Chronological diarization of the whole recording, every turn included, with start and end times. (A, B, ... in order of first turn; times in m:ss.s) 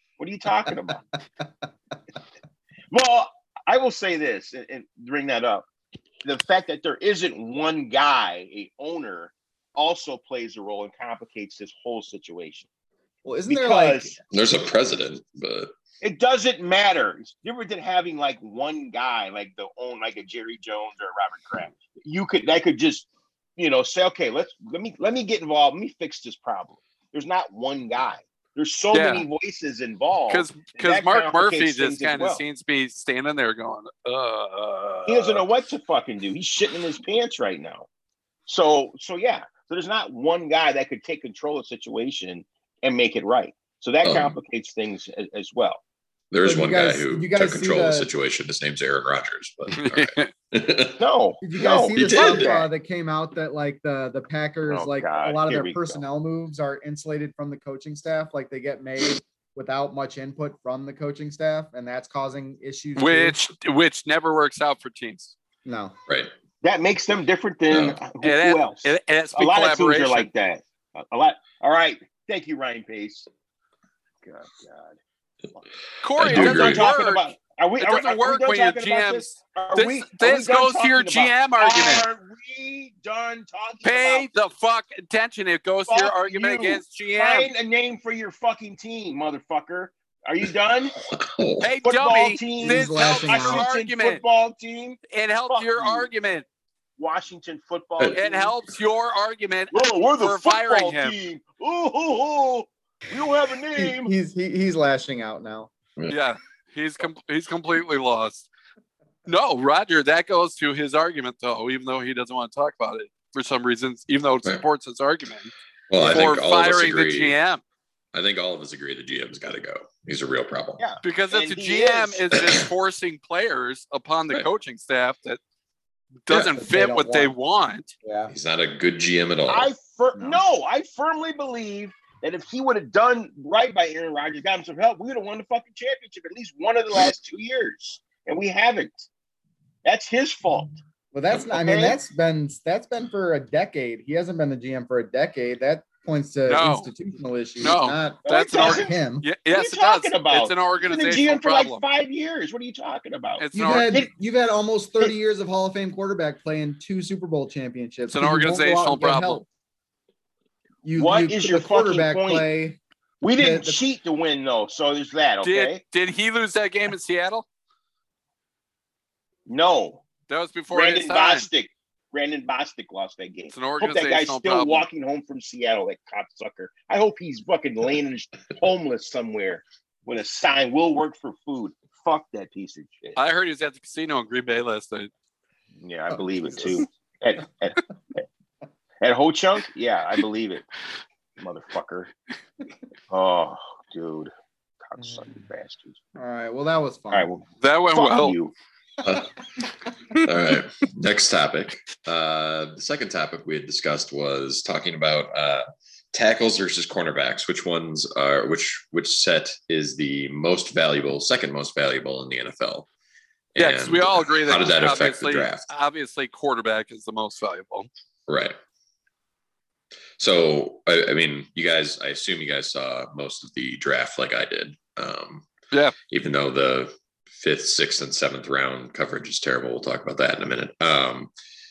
0:00.2-0:01.0 A
0:02.9-0:05.6 A
0:06.2-0:12.7 A
0:13.2-0:14.2 B
0:13.5-0:14.2 A
0:14.3-0:15.7 C
0:16.0-0:32.4 A
0:28.9-0:29.2 D
0:30.3-0:35.4 D
0:35.1-0:37.9 A
0:38.5-0:45.8 A
0:44.0-0:44.4 C
0:46.3-0:51.0 C
0:46.4-0:48.1 B
0:49.8-0:50.3 D
0:51.0-0:52.7 A
0:51.4-1:03.4 B
0:51.9-0:52.6 C
0:54.7-0:56.0 A
1:03.0-1:05.3 D
1:05.6-1:05.9 B
1:06.6-1:13.3 A
1:07.7-1:08.0 C
1:08.2-1:10.3 D
1:14.2-1:15.0 A
1:16.0-1:22.0 D
1:16.2-1:16.8 C
1:16.2-1:24.3 A
1:23.8-1:27.5 D
1:25.9-1:31.0 A
1:31.0-1:31.7 C
1:31.6-1:34.2 D
1:31.8-1:36.1 A
1:32.6-1:33.7 B
1:35.1-1:36.4 D
1:37.0-1:38.5 A
1:38.1-1:41.2 D
1:39.7-1:44.1 A
1:43.8-1:45.7 B
1:46.1-1:48.5 D
1:49.2-1:57.6 D
1:55.9-1:57.3 C
1:58.1-2:00.8 C
2:00.8-2:02.3 A
2:01.0-2:05.4 D
2:06.2-2:07.9 D
2:06.3-2:07.3 B
2:08.0-2:08.3 B
2:08.3-2:09.7 C
2:09.5-2:19.1 A
2:10.2-2:10.4 B
2:19.8-2:20.8 A
2:21.1-2:29.3 B
2:21.4-2:22.0 A
2:26.5-2:26.9 D
2:27.6-2:31.8 D
2:28.2-2:28.9 A
2:29.5-2:34.1 A
2:33.4-2:33.9 D
2:33.5-2:39.4 B
2:38.1-2:39.4 D
2:40.8-2:42.8 B
2:41.0-2:42.5 A
2:43.2-2:45.8 A
2:43.4-2:43.8 B
2:45.4-2:47.4 D
2:49.5-2:50.0 A
2:50.3-2:51.5 D
2:50.7-3:03.2 A
2:53.5-2:54.8 D
3:03.2-3:05.1 D
3:05.8-3:08.2 A
3:09.0-3:10.6 A
3:11.4-3:12.1 A
3:13.1-3:14.3 A
3:14.8-3:16.0 A
3:16.2-3:17.3 B
3:17.1-3:18.5 A
3:17.6-3:18.3 D
3:19.0-3:19.3 C
3:20.1-3:32.9 C
3:33.5-3:35.7 C
3:33.6-3:37.9 D
3:38.3-3:38.6 C
3:40.2-3:45.4 C
3:46.1-3:51.3 C